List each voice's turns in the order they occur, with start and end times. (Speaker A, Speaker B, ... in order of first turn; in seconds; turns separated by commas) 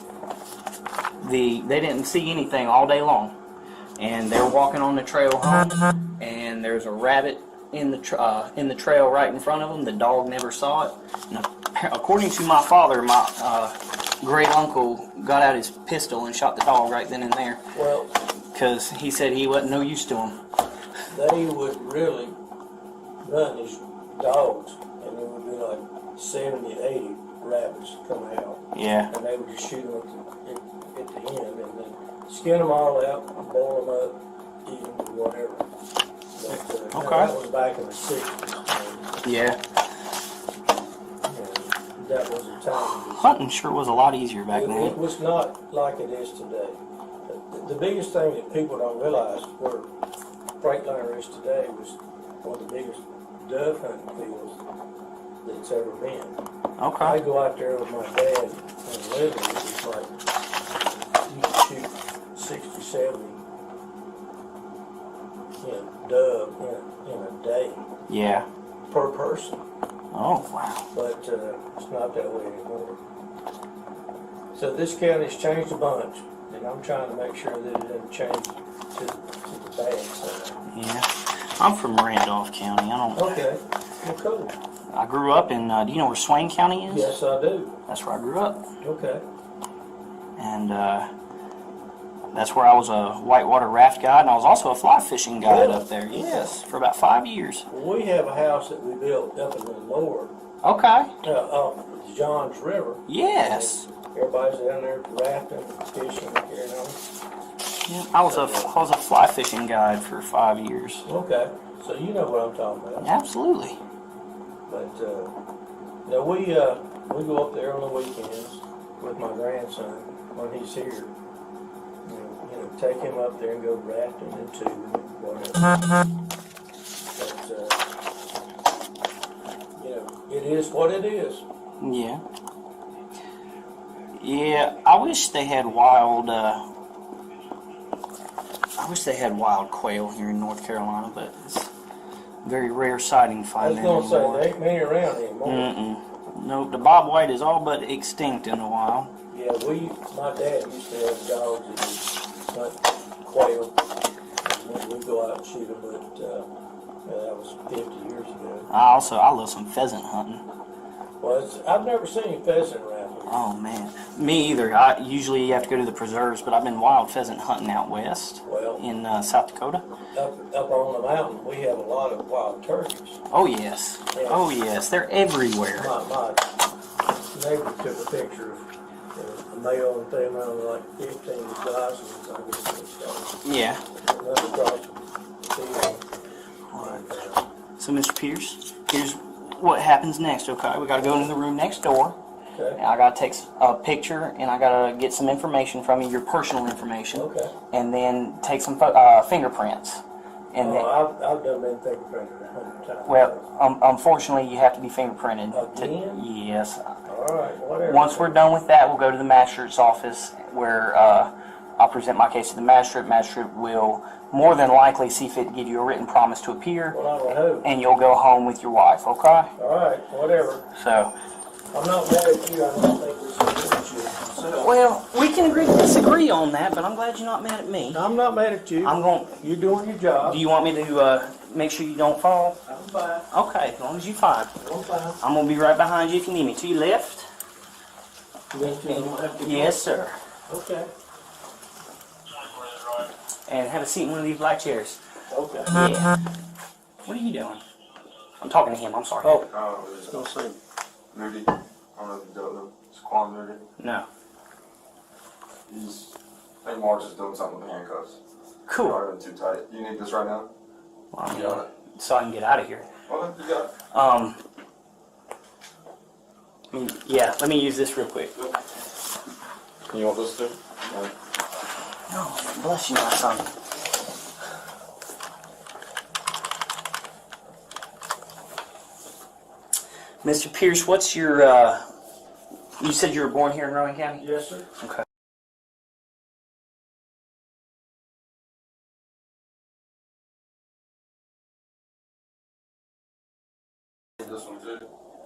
Speaker A: 1.2-3.4, Speaker A: 4.0-17.7, Speaker B: 17.7-18.1, Speaker A: 18.5-20.4, Speaker B: 21.1-22.4, Speaker B: 23.2-35.7, Speaker A: 28.7-29.1, Speaker B: 36.4-39.2, Speaker A: 36.9-37.3, Speaker A: 39.2-39.6, Speaker B: 41.3-43.4, Speaker A: 43.1-45.0, Speaker B: 44.5-49.9, Speaker B: 50.6-54.6, Speaker B: 55.4-56.4, Speaker A: 56.8-57.2, Speaker B: 57.0-60.1, Speaker B: 61.3-63.4, Speaker B: 65.6-67.8, Speaker A: 68.1-68.5, Speaker B: 68.9-69.6, Speaker A: 70.1-70.9, Speaker B: 70.9-73.0, Speaker B: 74.5-80.6, Speaker A: 80.7-83.4, Speaker B: 83.1-84.5, Speaker A: 84.9-87.1, Speaker B: 86.9-87.8, Speaker A: 87.9-88.7, Speaker B: 88.8-89.2, Speaker A: 90.4-91.1, Speaker A: 92.3-97.7, Speaker B: 95.4-96.5, Speaker B: 97.7-100.3, Speaker A: 100.6-101.1, Speaker B: 101.2-107.0, Speaker A: 103.1-103.9, Speaker A: 107.9-111.1, Speaker B: 108.2-108.7, Speaker B: 111.1-113.1, Speaker A: 113.0-113.8, Speaker B: 114.7-115.3, Speaker B: 116.1-121.1, Speaker B: 122.0-125.8, Speaker B: 127.2-127.8, Speaker B: 129.8-131.4, Speaker A: 131.8-132.2, Speaker A: 134.2-136.7, Speaker A: 138.8-141.7, Speaker A: 142.4-144.5, Speaker B: 143.6-145.8, Speaker A: 145.4-149.1, Speaker B: 149.3-153.8, Speaker B: 154.4-156.5, Speaker B: 157.1-158.7, Speaker A: 158.7-160.5, Speaker B: 161.2-163.4, Speaker A: 163.3-169.8, Speaker B: 168.4-168.8, Speaker B: 170.1-173.2, Speaker A: 173.3-175.9, Speaker B: 174.1-174.4, Speaker B: 175.8-176.5, Speaker B: 177.3-183.4, Speaker A: 183.4-183.8, Speaker B: 184.0-186.0, Speaker A: 186.7-187.0, Speaker B: 186.7-187.4, Speaker A: 187.8-192.2, Speaker B: 191.0-191.3, Speaker B: 192.5-192.8, Speaker A: 192.8-200.9, Speaker B: 197.1-197.6, Speaker B: 200.6-203.4, Speaker A: 203.1-207.0, Speaker B: 205.5-206.3, Speaker B: 207.1-208.5, Speaker A: 207.8-217.0, Speaker B: 216.9-217.7, Speaker A: 217.6-219.5, Speaker B: 219.6-220.7, Speaker A: 220.7-221.1, Speaker B: 221.7-224.8, Speaker A: 224.5-228.0, Speaker B: 227.9-230.4, Speaker A: 228.8-229.4, Speaker A: 230.2-232.6, Speaker B: 232.7-233.3, Speaker A: 233.3-234.5, Speaker B: 234.6-235.2, Speaker A: 235.2-237.3, Speaker B: 238.5-239.9, Speaker A: 238.6-240.2, Speaker B: 240.5-240.9, Speaker A: 243.5-245.0, Speaker B: 245.3-245.8, Speaker A: 245.7-246.1, Speaker A: 247.1-247.6, Speaker A: 248.4-249.5, Speaker C: 249.5-250.2, Speaker B: 250.1-250.6, Speaker C: 251.1-253.6, Speaker A: 253.8-254.1, Speaker C: 255.7-256.1, Speaker C: 256.6-258.2, Speaker A: 258.7-259.0, Speaker C: 258.8-260.5, Speaker A: 261.1-262.9, Speaker C: 261.3-261.7, Speaker C: 263.1-263.7, Speaker A: 263.9-264.4, Speaker A: 266.7-268.4, Speaker C: 269.9-271.1, Speaker A: 272.1-273.5, Speaker A: 280.2-281.8, Speaker A: 282.8-284.3, Speaker B: 284.2-284.7, Speaker C: 294.2-294.8